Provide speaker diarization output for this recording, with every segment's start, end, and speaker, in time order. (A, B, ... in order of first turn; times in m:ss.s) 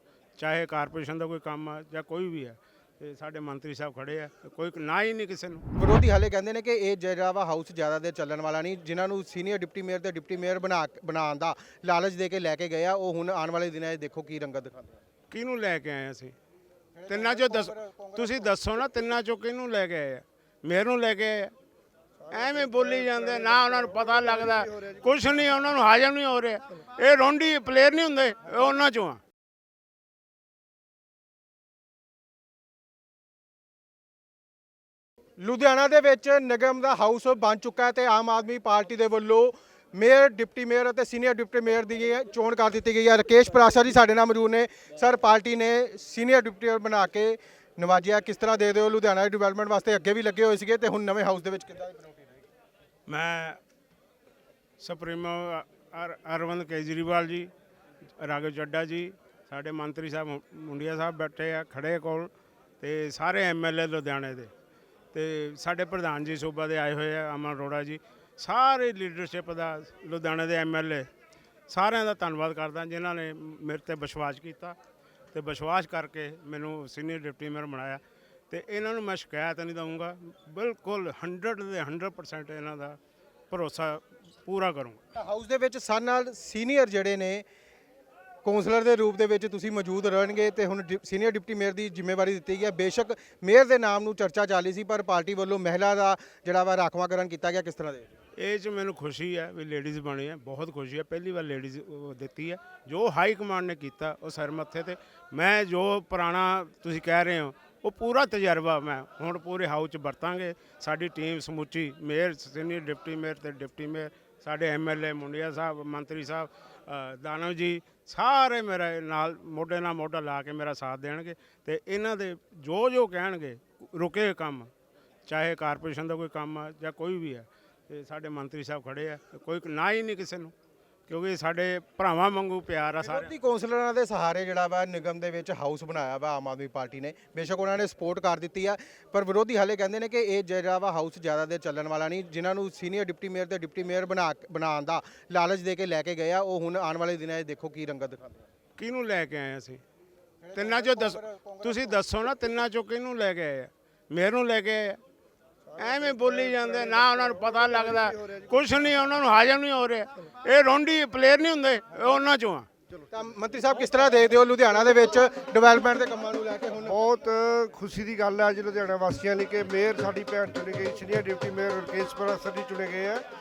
0:00.4-0:05.6 A
0:05.8-0:15.0 B
0:15.3-0:16.3 A
0:17.0-0:18.7 B
0:17.1-0:21.5 A
0:22.2-0:25.4 C
0:22.3-0:29.2 A
0:35.4-0:52.3 B
0:53.1-0:53.6 A
0:54.8-0:57.5 A
0:58.2-1:04.5 A
1:05.1-1:11.1 A
1:11.7-1:14.8 A
1:15.3-1:23.0 A
1:23.5-1:25.0 A
1:25.2-1:27.4 B
1:28.4-1:38.1 B
1:38.4-2:04.7 A
2:05.3-2:10.5 A
2:11.1-2:13.3 A
2:13.0-2:28.4 B
2:28.8-2:29.8 A
2:30.4-2:32.0 B
2:30.5-2:35.0 A
2:35.6-2:38.7 C
2:35.8-2:42.7 A
2:43.1-2:47.0 B
2:46.8-2:53.2 C